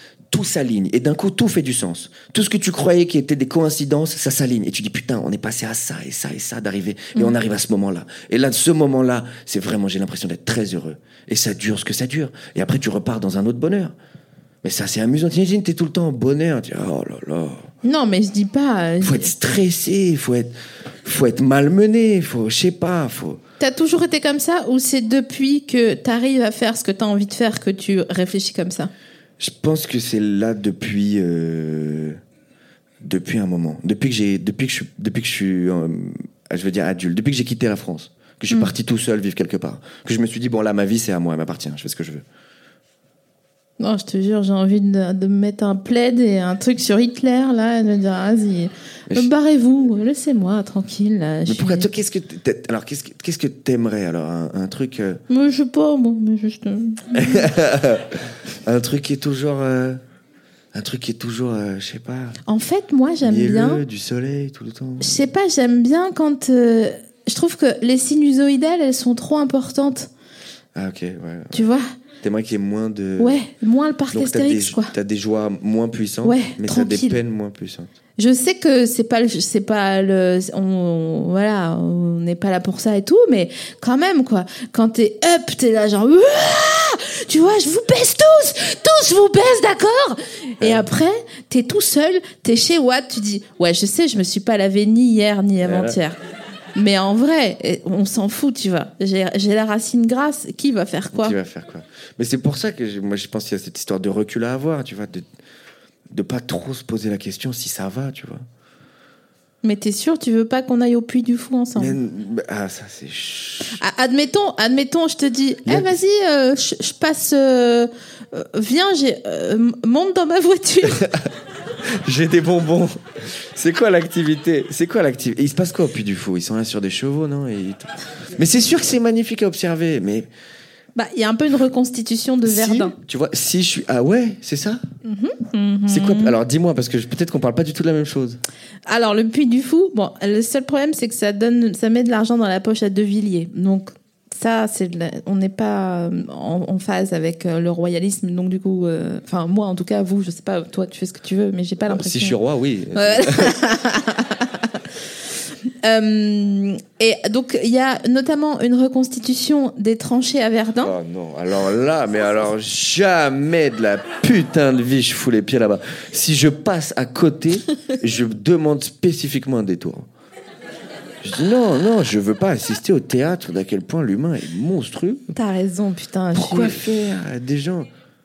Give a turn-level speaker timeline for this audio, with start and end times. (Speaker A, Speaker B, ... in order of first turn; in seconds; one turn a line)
Speaker A: 0.3-13.9
Speaker A: 14.6-17.7
Speaker B: 17.8-19.3
Speaker A: 19.0-23.4
Speaker B: 23.6-28.9
Speaker A: 29.4-32.2
Speaker A: 33.0-42.2
Speaker B: 43.8-51.9
Speaker A: 51.5-55.2
Speaker B: 55.3-57.5
Speaker A: 57.1-60.0
Speaker A: 60.7-62.4
Speaker B: 62.5-63.8
Speaker A: 63.2-65.2
Speaker B: 65.0-70.1
Speaker A: 70.8-71.7
Speaker B: 71.5-71.9
Speaker A: 72.2-73.4
Speaker B: 73.2-74.9
Speaker A: 74.1-77.9
Speaker B: 76.2-77.2
Speaker B: 78.2-96.2
Speaker A: 90.6-90.9
Speaker A: 95.6-96.0
Speaker B: 96.8-101.4
Speaker A: 101.1-105.3
Speaker A: 106.1-108.5
Speaker B: 109.6-112.0
Speaker A: 111.8-113.8
Speaker B: 113.8-121.0
Speaker A: 115.7-115.9
Speaker A: 120.9-121.3
Speaker A: 122.0-130.3
Speaker B: 131.0-132.9
Speaker A: 132.4-134.8
Speaker B: 135.0-136.3
Speaker A: 135.9-138.4
Speaker B: 138.9-152.4
Speaker A: 151.9-153.6
Speaker B: 152.9-154.5
Speaker B: 155.8-160.9
Speaker A: 160.8-170.1
Speaker A: 171.2-175.2
Speaker B: 175.3-177.0
Speaker A: 176.3-177.9